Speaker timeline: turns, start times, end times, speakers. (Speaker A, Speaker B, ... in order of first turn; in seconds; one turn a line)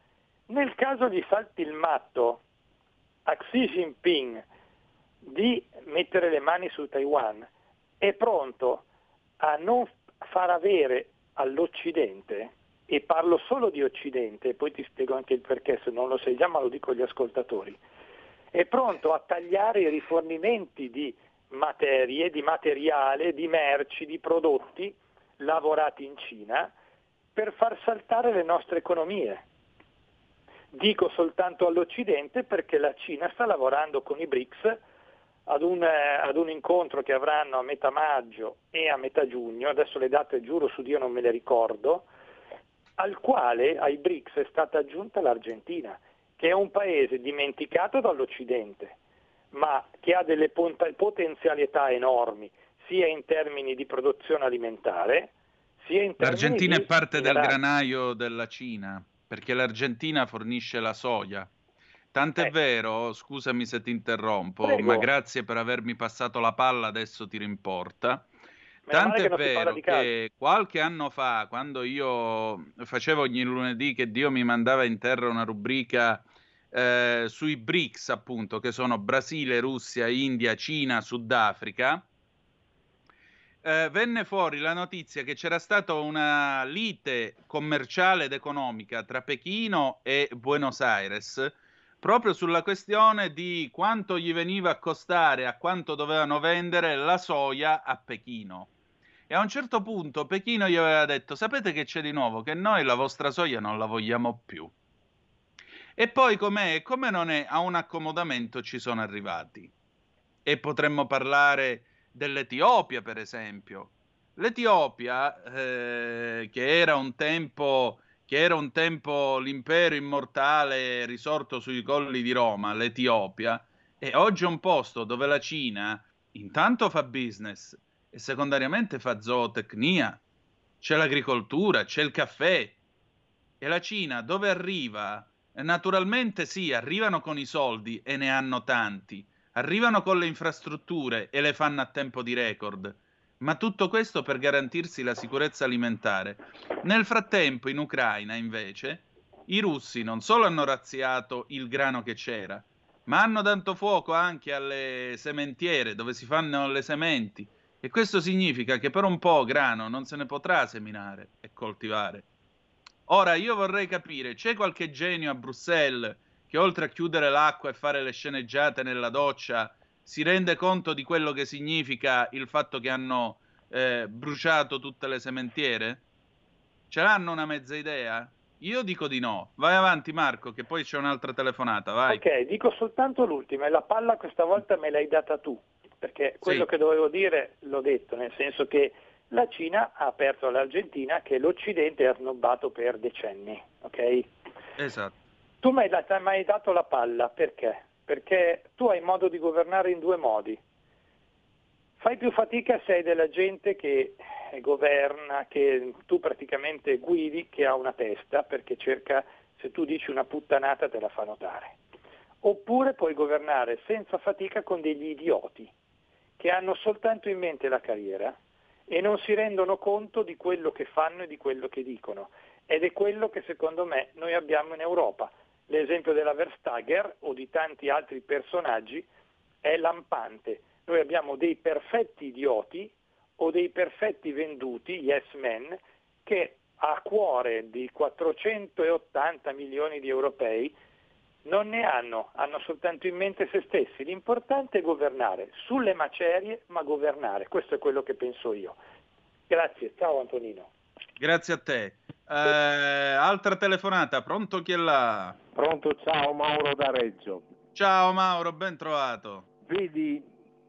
Speaker A: 0.5-2.4
Speaker A: 3.2-4.4
Speaker A: 5.2-7.5
Speaker A: 8.0-8.8
Speaker A: 9.4-17.8
Speaker A: 18.5-26.7
Speaker A: 27.3-29.4
Speaker A: 30.7-34.8
Speaker A: 35.5-42.1
Speaker A: 43.0-49.0
Speaker A: 49.5-55.3
Speaker A: 55.8-57.6
Speaker B: 56.2-61.5
Speaker B: 62.1-68.2
Speaker A: 64.6-65.1
Speaker A: 68.9-70.1
Speaker B: 68.9-76.2
Speaker B: 76.7-82.0
Speaker B: 83.6-98.7
Speaker B: 99.3-104.7
Speaker B: 106.0-109.7
Speaker B: 110.4-130.2
Speaker B: 130.8-132.7
Speaker B: 133.6-162.2
Speaker B: 163.1-176.0
Speaker B: 176.9-182.2
Speaker A: 182.1-194.3
Speaker B: 194.8-195.1
Speaker A: 195.6-200.6
Speaker A: 202.0-211.8
Speaker A: 212.4-215.7
Speaker A: 216.4-218.3
Speaker A: 218.9-229.1
Speaker A: 229.6-240.7
Speaker A: 241.4-248.8
Speaker A: 249.5-250.7
Speaker B: 251.2-255.3
Speaker C: 255.5-257.4
Speaker B: 257.7-259.4
Speaker C: 259.7-260.3